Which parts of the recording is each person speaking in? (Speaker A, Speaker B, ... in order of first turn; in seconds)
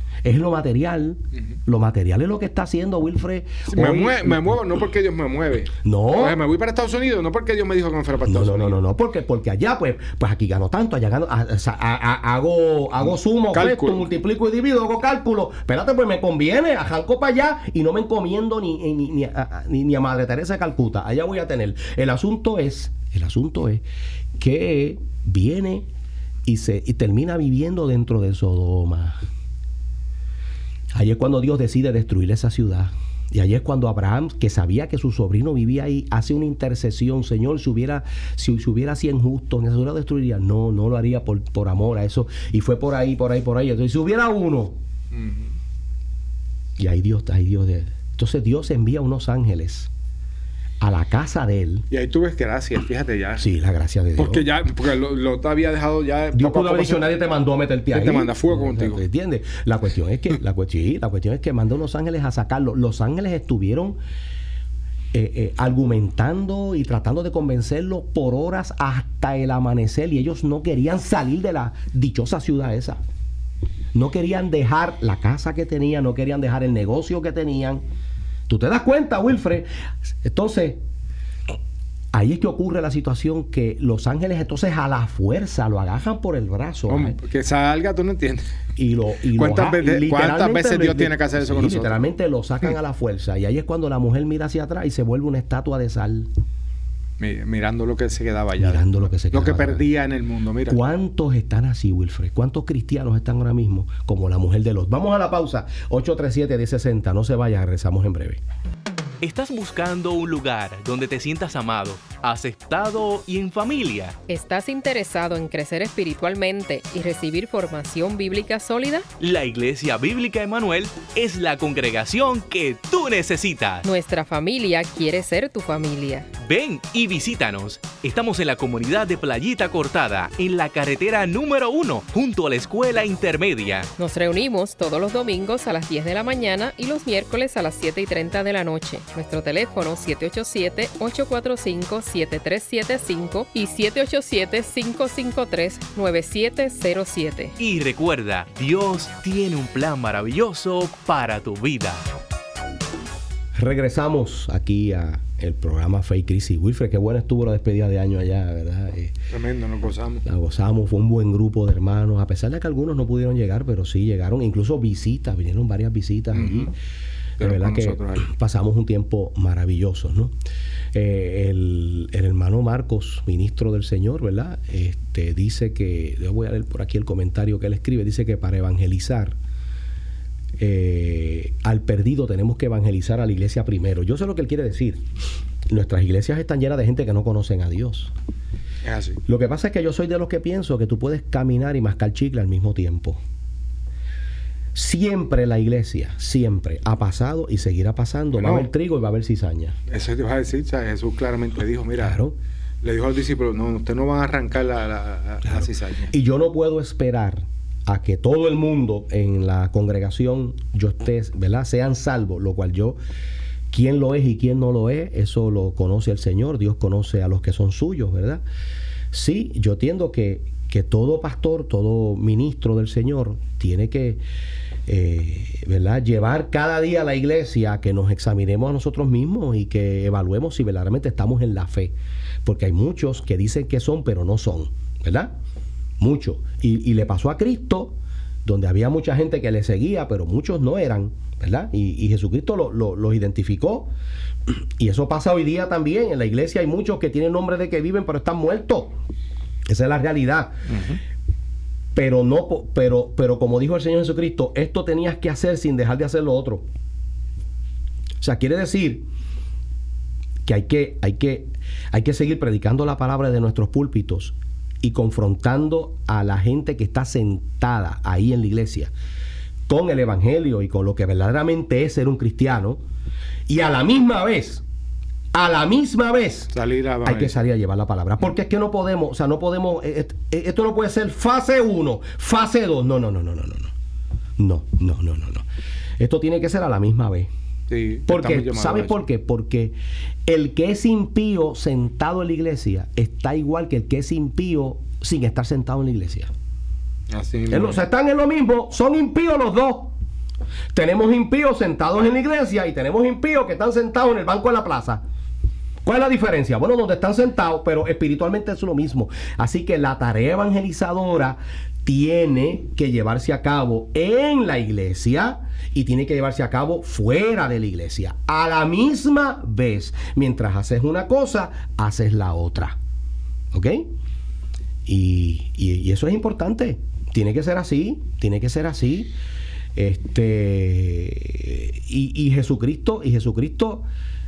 Speaker A: 0.2-4.5, 5.8-6.4, 8.3-23.8, 24.4-25.9, 26.4-29.2, 30.9-44.8, 46.8-49.9, 50.8-51.8, 53.4-54.5, 56.3-64.0, 65.1-73.0, 73.9-77.8, 78.5-79.7, 80.2-80.8, 82.1-87.2, 88.8-96.3, 98.6-99.9, 100.7-108.4, 153.5-159.1, 160.2-166.7, 167.4-170.3, 170.9-179.3, 180.6-185.0, 185.7-188.1, 189.2-193.2, 194.7-199.8, 202.0-202.3, 206.1-213.0, 213.7-218.4, 219.1-224.2, 224.9-235.3, 236.0-243.9, 244.5-249.0, 249.7-250.6, 251.9-256.6, 258.2-259.0, 260.4-268.9, 269.7-272.8, 273.5-274.6, 275.3-276.5, 277.0-283.7, 284.4-285.4, 286.0-287.3, 288.1-289.7, 290.2-296.3, 297.5-299.9, 300.7-305.0, 305.8-322.8, 323.5-323.9, 324.9-329.1, 329.8-333.8
Speaker B: 3.7-8.8, 13.5-14.1, 45.1-45.5, 51.9-53.5, 54.2-57.1, 57.9-59.0, 86.9-88.5, 89.3-92.0, 97.2-100.8, 159.3-160.2, 166.3-166.7, 167.4-168.3, 188.8-189.2, 198.3-198.7, 199.9-202.2, 202.8-206.1, 250.7-251.0, 276.5-277.4, 287.7-288.9, 297.1-297.8
Speaker C: 109.2-114.2, 119.2-123.8, 126.4-133.9, 147.6-152.0
Speaker D: 114.3-119.1, 123.8-126.3, 134.0-147.5